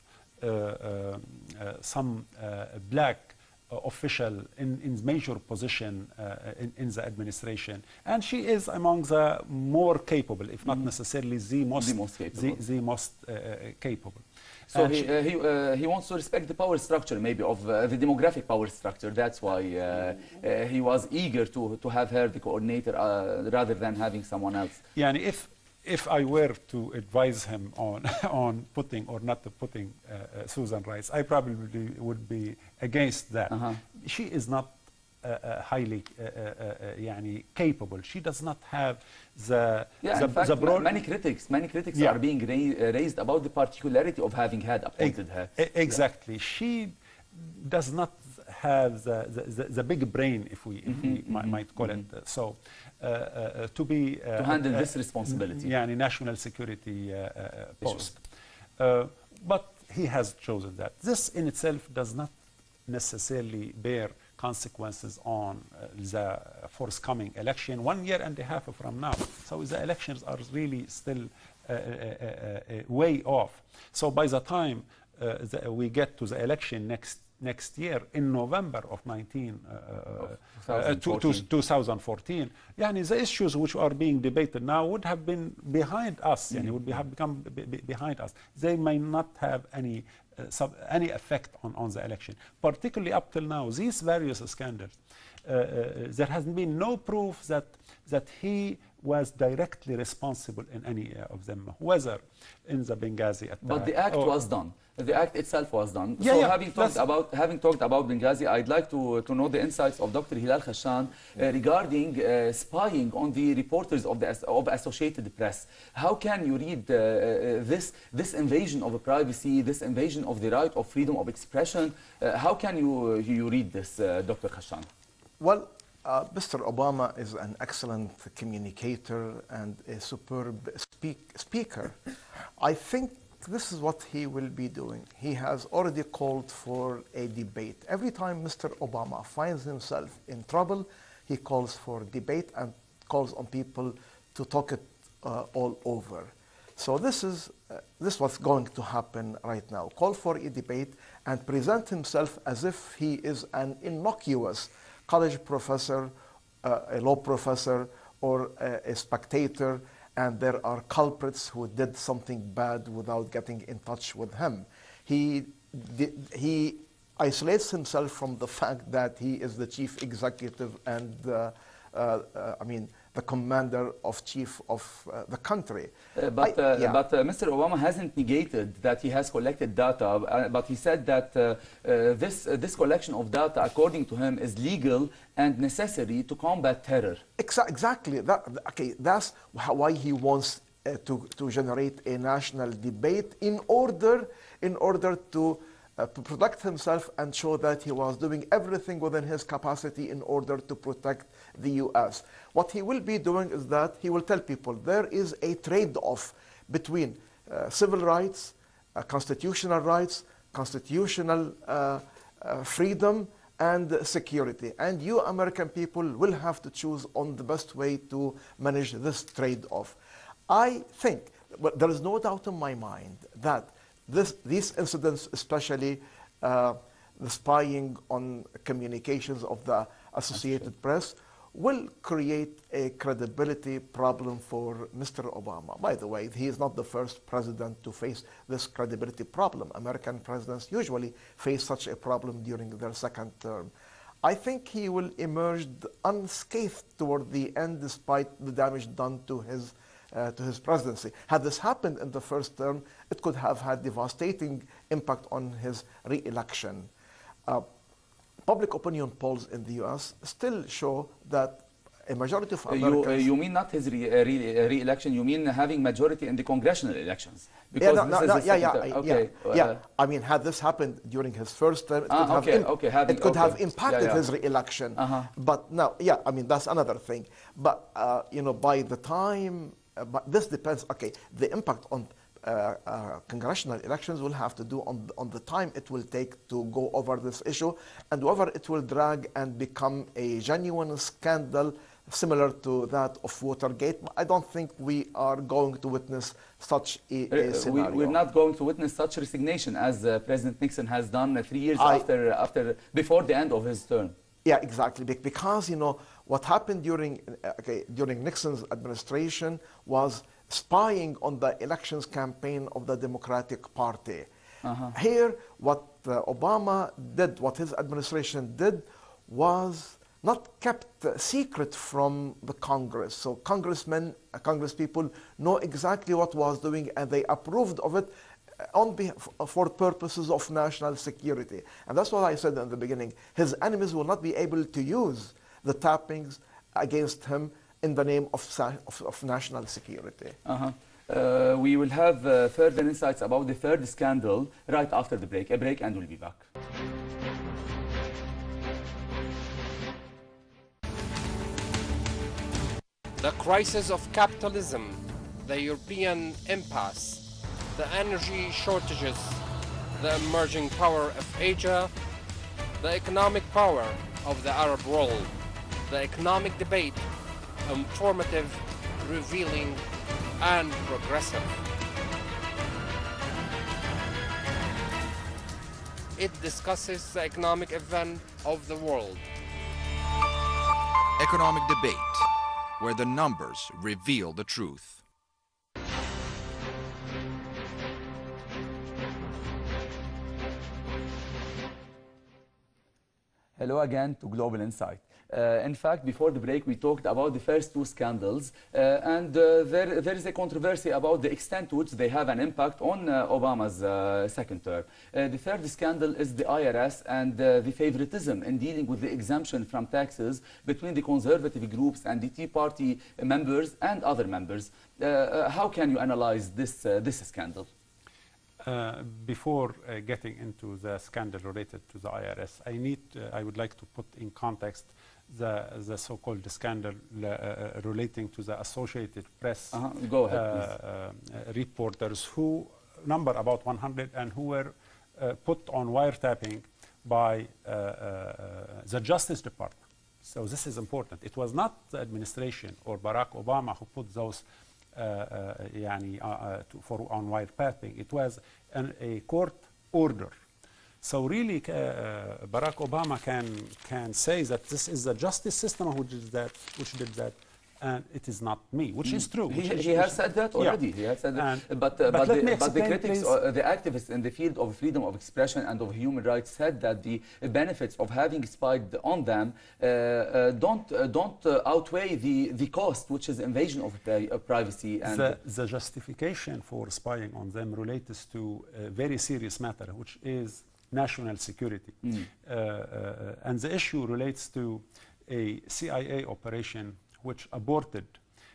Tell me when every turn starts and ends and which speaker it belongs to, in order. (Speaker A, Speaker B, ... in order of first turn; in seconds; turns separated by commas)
Speaker A: 0.4-15.1, Speaker B: 11.8-12.6, Speaker B: 14.7-24.8, Speaker A: 24.9-40.9, Speaker B: 33.5-33.8, Speaker B: 40.0-46.0, Speaker A: 41.9-42.2, Speaker A: 45.0-58.2, Speaker B: 50.9-52.0, Speaker B: 54.4-55.7, Speaker B: 57.8-58.1, Speaker A: 58.8-62.3, Speaker A: 62.9-104.3, Speaker B: 80.2-81.4, Speaker B: 103.6-124.9, Speaker A: 106.2-107.0, Speaker C: 125.4-132.0, Speaker C: 132.6-156.1, Speaker C: 156.6-177.0, Speaker B: 176.2-187.2, Speaker C: 187.4-219.9, Speaker C: 220.5-243.7, Speaker C: 244.2-256.9, Speaker C: 258.4-263.3, Speaker B: 262.7-269.8, Speaker C: 267.8-298.2, Speaker B: 272.1-274.2, Speaker B: 275.0-275.3, Speaker B: 297.3-304.1, Speaker C: 301.8-302.1, Speaker C: 304.4-314.3, Speaker B: 314.6-314.9, Speaker C: 314.9-340.4, Speaker B: 340.4-346.4, Speaker D: 353.2-359.4, Speaker D: 359.9-361.9, Speaker D: 362.8-365.3, Speaker D: 365.9-367.1, Speaker D: 367.6-369.8, Speaker D: 370.4-371.6, Speaker D: 376.2-379.3, Speaker E: 381.2-385.0, Speaker B: 393.6-417.7, Speaker A: 418.6-450.4, Speaker B: 429.7-430.7, Speaker A: 451.0-460.8, Speaker B: 459.0-475.4, Speaker A: 461.3-463.4, Speaker A: 475.0-488.2, Speaker B: 482.0-482.3